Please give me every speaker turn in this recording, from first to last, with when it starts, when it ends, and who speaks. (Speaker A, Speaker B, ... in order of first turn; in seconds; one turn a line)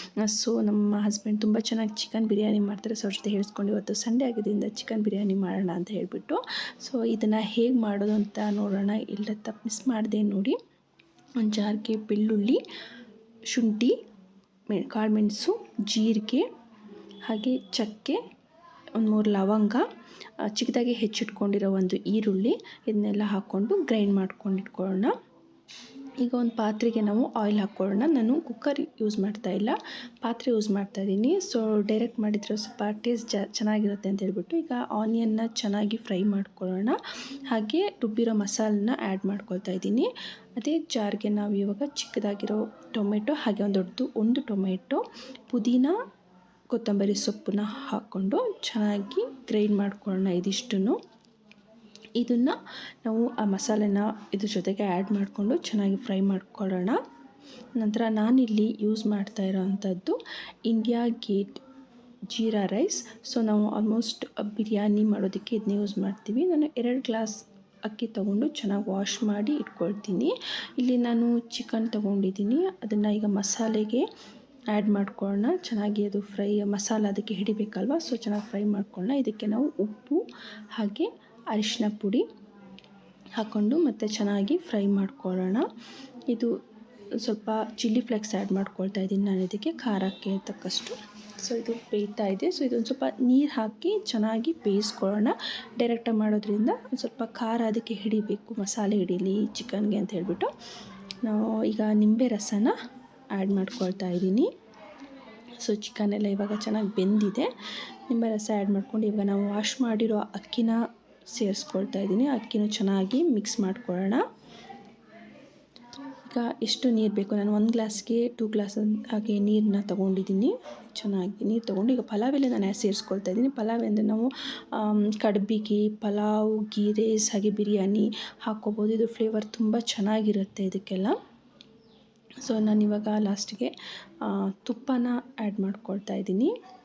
Speaker A: 0.2-10.6
Speaker A: 11.4-12.6
Speaker A: 13.5-14.0
Speaker A: 14.7-16.5
Speaker A: 17.3-18.2
Speaker A: 19.0-19.9
Speaker A: 20.4-25.1
Speaker A: 26.2-37.0
Speaker A: 37.5-46.0
Speaker A: 46.7-51.0
Speaker A: 52.2-57.0
Speaker A: 57.8-61.6
Speaker A: 62.3-74.1
Speaker A: 74.7-82.2
Speaker A: 83.4-85.7
Speaker A: 87.2-100.5
Speaker A: 101.2-102.8
Speaker A: 103.3-104.5
Speaker A: 105.6-107.5
Speaker A: 108.1-110.8
Speaker A: 111.3-114.2
Speaker A: 116.3-131.2
Speaker A: 132.4-136.5